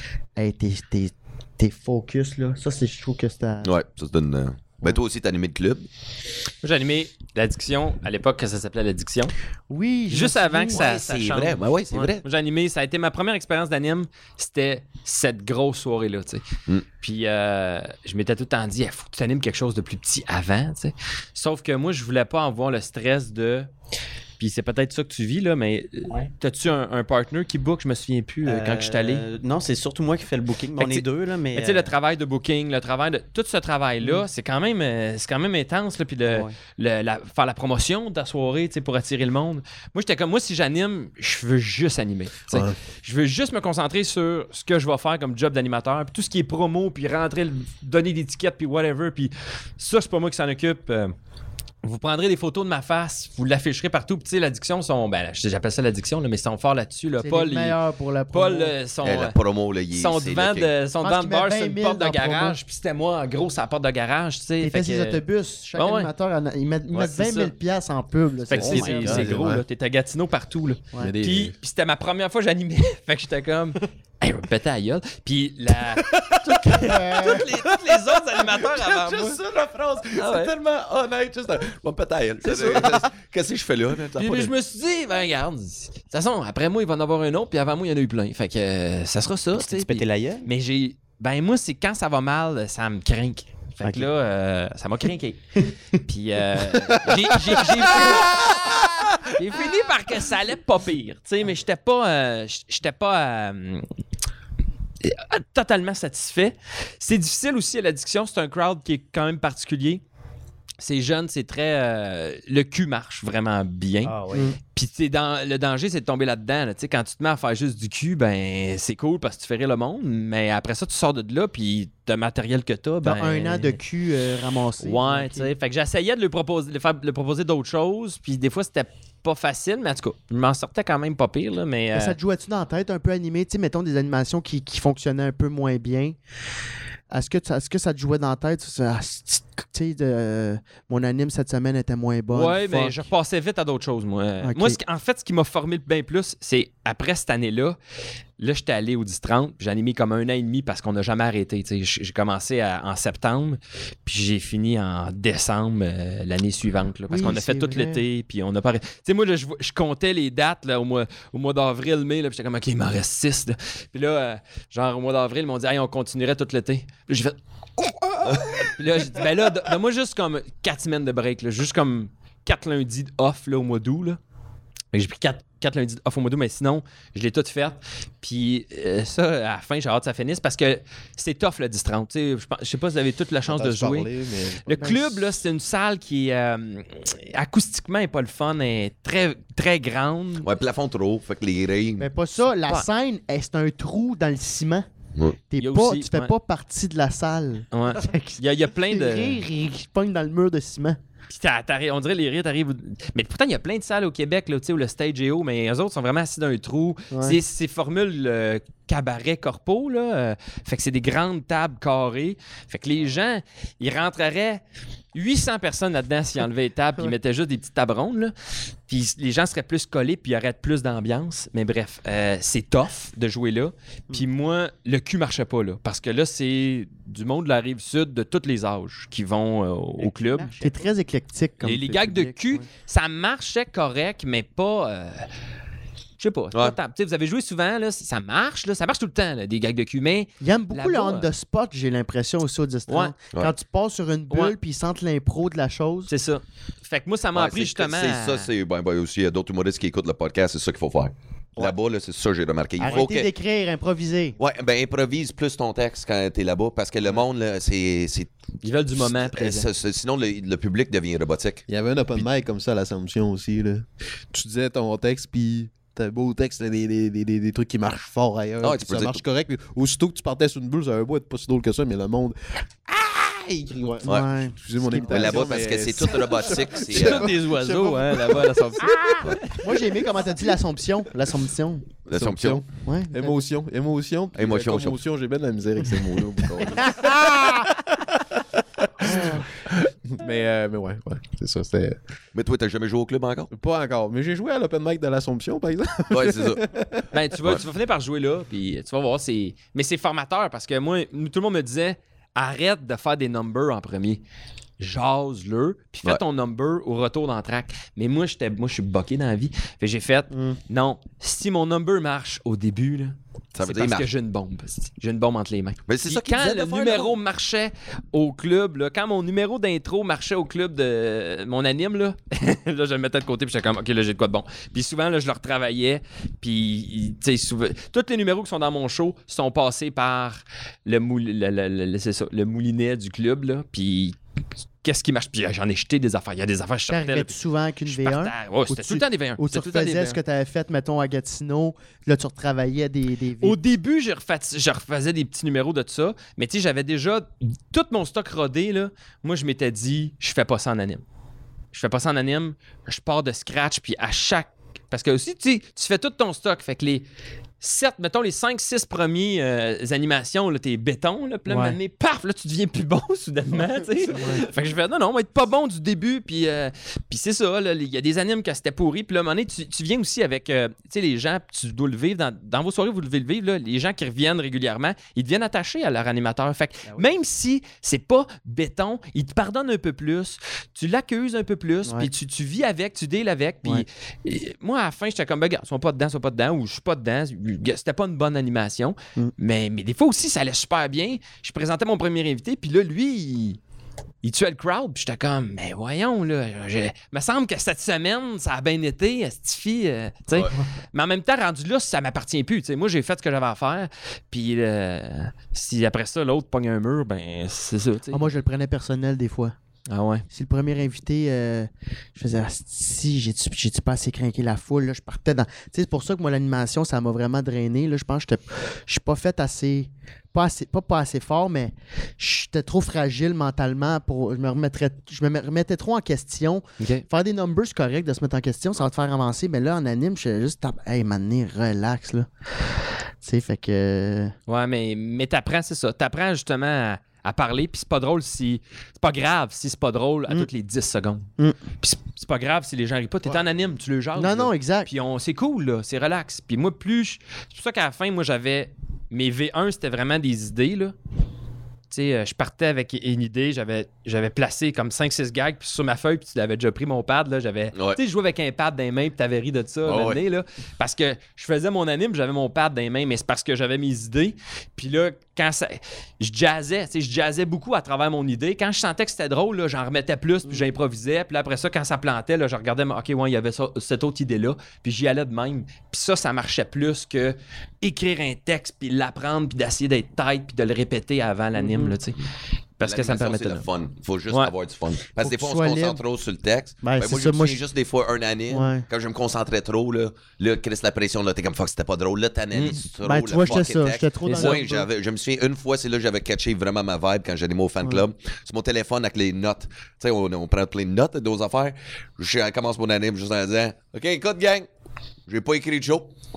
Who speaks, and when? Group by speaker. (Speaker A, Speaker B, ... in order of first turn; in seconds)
Speaker A: 0.3-3.7, 9.7-10.9, 57.2-58.7, 61.0-62.6, 64.6-69.3, 76.8-77.5, 123.0-125.5, 131.9-136.2, 137.1-143.0, 144.4-144.8, 157.1-158.0, 184.8-185.1, 192.0-194.8, 195.5-201.0, 207.1-207.4, 230.5-232.7, 240.4-246.1, 252.8-254.4, 274.0-275.6, 279.5-281.9, 282.8-283.4, 286.8-287.7, 289.0-289.5, 336.9-343.6, 361.4-361.8, 364.1-364.4, 381.8-382.1, 408.1-409.6, 410.3-434.3, 444.1-444.9, 481.6-481.9, 485.2-486.0, 486.8-487.6, 488.5-488.9, 492.9-494.9
Speaker B: 3.6-5.8, 10.7-12.2, 59.0-60.7, 76.3-84.5, 98.1-98.6, 168.2-168.6, 190.4-192.1, 247.3-253.3, 254.4-258.3, 259.0-262.2, 268.6-269.2, 274.9-277.4, 282.1-282.6, 284.4-285.0, 292.3-293.5, 296.1-296.6, 313.5-314.1, 315.9-317.2, 459.8-460.2, 482.8-504.7, 505.3-506.1
Speaker C: 6.6-9.3, 10.1-16.4, 17.0-23.7, 24.4-29.2, 30.8-51.1, 51.8-57.8, 58.3-59.4, 59.9-65.2, 65.7-66.1, 66.9-67.5, 68.5-79.4, 80.1-80.5, 82.4-83.0, 84.1-98.8, 99.3-103.8, 105.0-110.0, 110.8-114.1, 114.7-123.8, 124.8-132.2, 142.3-147.8, 148.4-174.2, 174.9-184.1, 184.7-190.5, 195.6-196.3, 197.7-199.4, 201.3-214.6, 215.1-218.3, 218.9-230.7, 231.6-235.2, 236.2-241.3, 242.9-243.1, 244.3-244.5, 246.1-248.5, 258.6-259.7, 276.8-279.7, 297.1-304.2, 304.8-334.1, 334.8-340.2, 343.4-351.0, 351.7-357.0, 357.6-393.6, 394.2-408.3, 409.9-410.2, 426.8-427.0, 434.5-441.3, 441.8-450.9, 451.9-482.2, 482.8-483.6, 494.2-494.6
Speaker D: 28.4-31.9, 36.3-36.5, 68.6-69.3, 89.5-90.5, 93.8-94.1, 114.0-114.5, 230.0-230.6
Speaker E: 42.5-42.8, 69.1-69.6, 71.0-71.6, 183.4-184.9, 261.7-278.7, 282.1-288.2, 289.0-292.0, 293.5-297.1